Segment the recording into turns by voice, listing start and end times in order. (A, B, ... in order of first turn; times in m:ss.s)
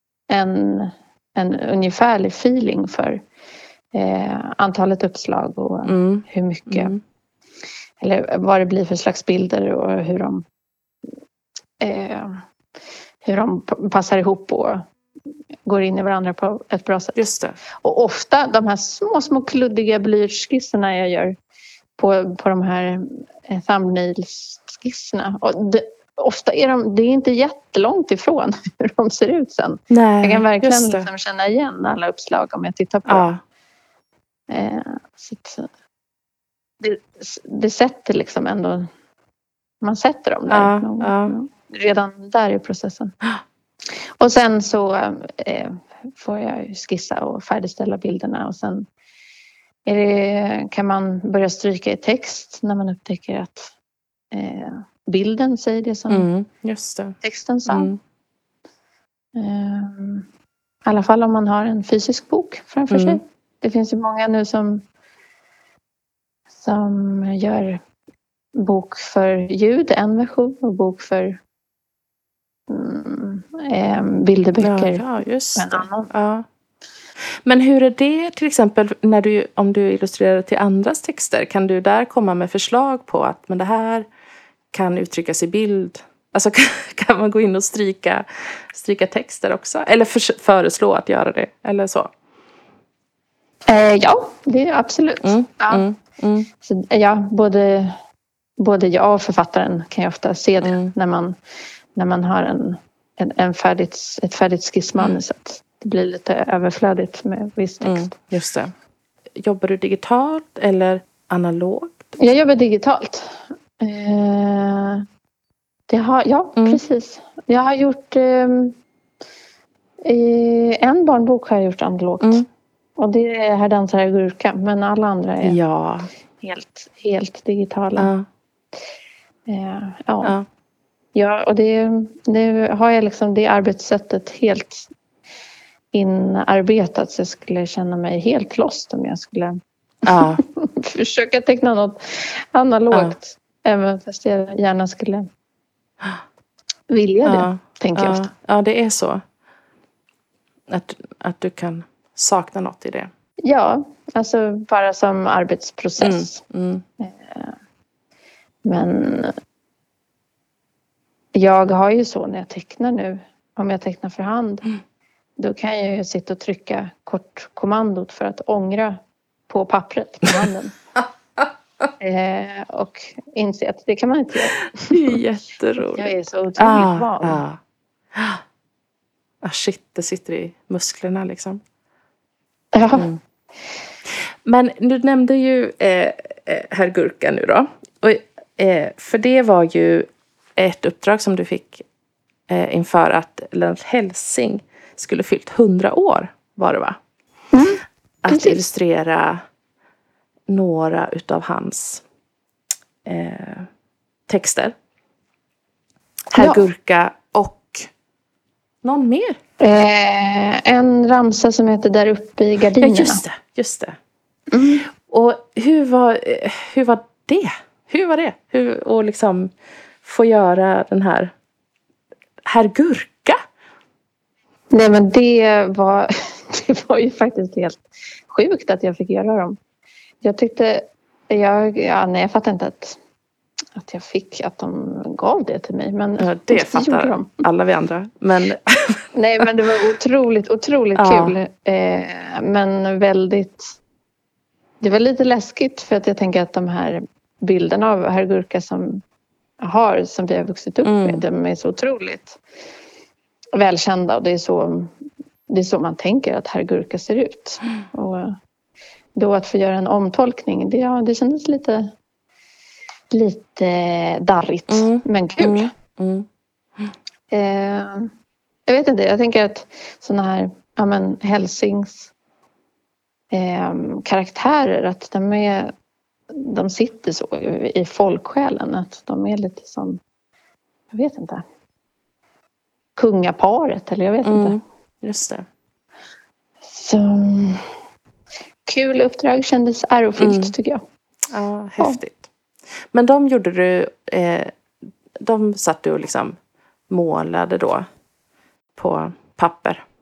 0:00.3-0:03.2 A
0:03.9-0:06.9 A
0:05.8-0:07.0 B
0:08.0-0:10.4 A
0:11.8-0:12.4 A
0:13.2-0:14.9 A
0:15.6-0:17.3 A
0:17.2-0:17.6 B
0:17.8-0:21.4 A
0:22.0-0:33.3 A
0:29.9-0:31.1 B
0:33.1-0:33.4 B
0:34.5-0:35.7 A
0:36.8-0:38.9 A
0:39.8-0:43.1 A
0:40.5-0:41.3 B
0:44.2-0:48.9 A
0:49.8-0:53.7 A
0:54.3-0:56.3 A
0:56.1-0:57.2 B
0:57.2-0:57.9 A
0:57.7-0:58.0 B
0:59.3-1:00.3 A
1:00.8-1:04.8 A
1:02.9-1:03.2 B
1:06.6-1:07.8 A
1:08.6-1:11.4 A
1:12.7-1:15.0 A
1:14.6-1:16.4 B
1:15.6-1:16.1 A
1:17.4-1:24.1 B
1:24.7-1:32.1 B
1:33.7-1:35.9 A
1:35.2-1:36.5 B
1:36.6-1:38.0 A
1:38.6-1:41.3 A
1:40.6-1:40.9 B
1:41.9-1:48.2 A
1:47.8-1:48.7 B
1:49.4-1:52.2 B
1:52.2-1:55.0 A
1:55.9-1:58.8 A
2:00.0-2:02.4 A
2:03.0-2:05.6 A
2:05.4-2:06.1 B
2:06.4-2:08.1 A
2:08.0-2:08.2 B
2:09.5-2:10.4 A
2:11.1-2:14.9 A
2:15.9-2:19.6 A
2:20.0-2:20.4 B
2:20.1-2:25.3 A
2:26.9-2:28.2 A
2:27.2-2:29.2 B
2:30.7-2:33.1 B
2:33.4-2:36.4 A
2:36.0-2:36.8 B
2:37.0-2:37.5 A
2:38.6-2:39.3 A
2:41.3-2:44.7 A
2:45.4-2:50.7 A
2:52.0-2:55.2 A
2:54.9-2:57.6 B
2:55.8-2:57.4 A
2:58.1-2:58.4 B
2:59.4-3:01.6 B
3:02.7-3:03.1 A
3:04.4-3:11.8 B
3:12.5-3:17.0 B
3:17.5-3:18.6 A
3:18.2-3:19.4 B
3:20.5-3:22.0 B
3:23.0-3:23.7 B
3:24.3-3:24.7 B
3:26.3-3:26.6 A
3:26.3-3:27.9 B
3:28.8-3:29.4 B
3:29.6-3:33.2 A
3:32.8-3:34.0 B
3:34.5-3:34.9 A
3:35.0-3:39.5 B
3:40.0-3:41.3 B
3:42.4-3:43.4 B
3:44.7-3:49.6 A
3:50.2-3:53.0 A
3:53.8-3:57.4 A
3:56.2-3:59.0 B
3:59.1-4:03.7 A
4:01.0-4:01.4 B
4:04.8-4:09.0 A
4:09.6-4:12.4 A
4:10.8-4:11.2 B
4:13.6-4:14.9 A
4:15.5-4:18.4 A
4:19.2-4:21.9 A
4:23.1-4:25.7 A
4:24.7-4:26.3 B
4:27.3-4:28.1 A
4:28.7-4:32.1 A
4:33.3-4:35.7 A
4:36.3-4:40.0 A
4:40.9-4:41.4 A
4:43.0-4:44.6 A
4:44.2-4:45.4 B
4:46.7-4:47.7 A
4:48.6-4:50.8 A
4:50.2-4:50.5 B
4:51.3-4:52.3 B
4:52.9-4:54.6 B
4:55.2-4:56.4 B
4:56.9-4:57.8 B
4:58.8-4:59.8 B